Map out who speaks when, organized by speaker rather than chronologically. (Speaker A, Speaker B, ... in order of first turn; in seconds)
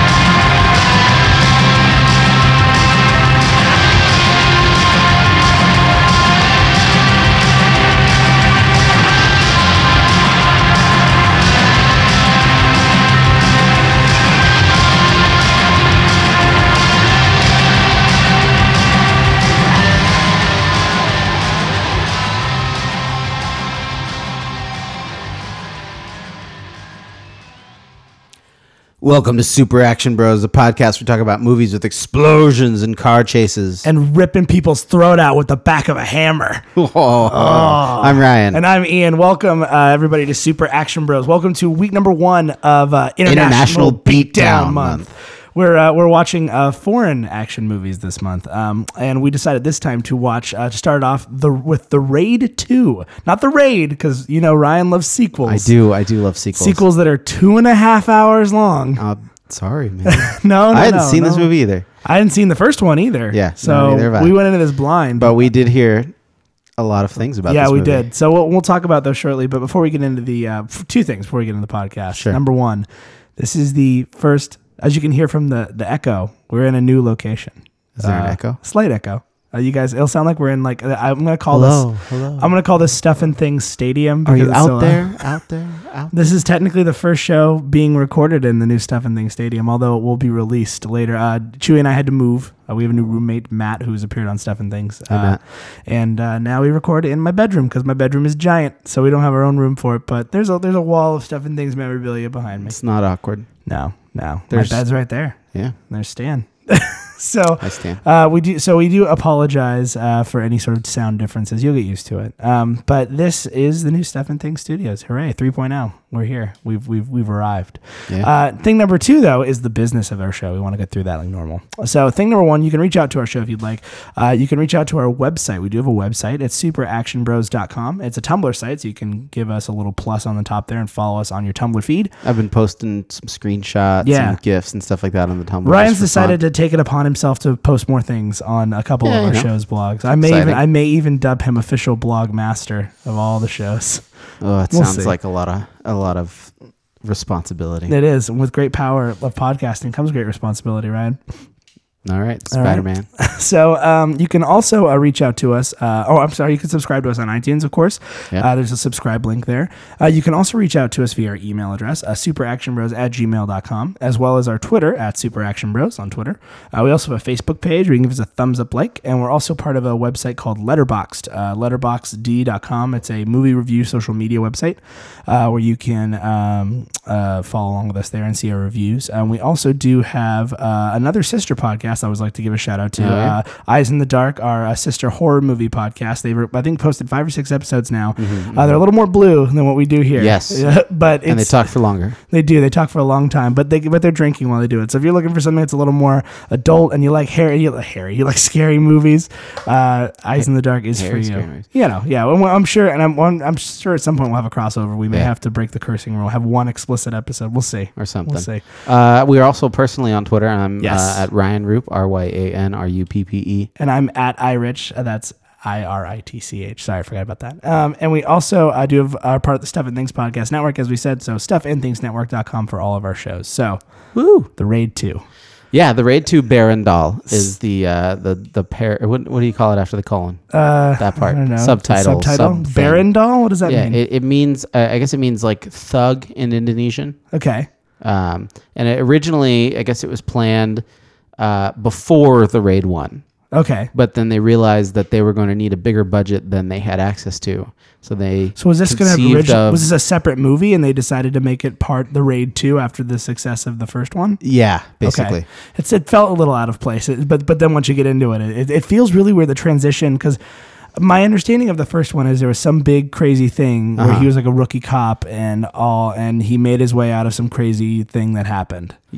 Speaker A: 29.0-33.9, 36.8-38.6, 43.2-45.0, 55.5-56.8, 59.0-61.8, 63.3-64.4, 65.2-66.1, 66.8-68.1, 72.1-72.4, 78.0-78.6, 81.5-82.5, 84.2-86.1, 95.1-95.4, 102.7-103.5, 104.5-104.8, 107.6-108.0, 132.2-136.4, 139.0-139.5, 140.2-140.6, 144.4-147.9, 152.0-153.1, 182.9-183.4, 188.2-188.8, 190.2-190.7, 191.3-192.2, 200.9-201.6, 208.0-213.7, 224.1-224.5, 225.7-233.1, 233.6-237.2, 238.0-240.8, 241.4-243.2, 243.9-249.9, 254.4-255.4, 264.0-264.3
Speaker B: 33.8-36.6, 37.2-55.7, 56.5-59.0, 60.0-61.5, 62.0-65.4, 67.5-85.2, 86.1-102.8, 103.6-132.1, 134.0-134.4, 135.6-144.1, 144.7-145.2, 147.9-151.2, 152.5-191.7, 192.3-208.7, 210.8-211.3, 213.8-223.8, 224.6-225.2, 230.5-234.0, 237.3-237.7, 243.5-243.9, 248.6-254.4, 255.0-260.4, 261.0-269.0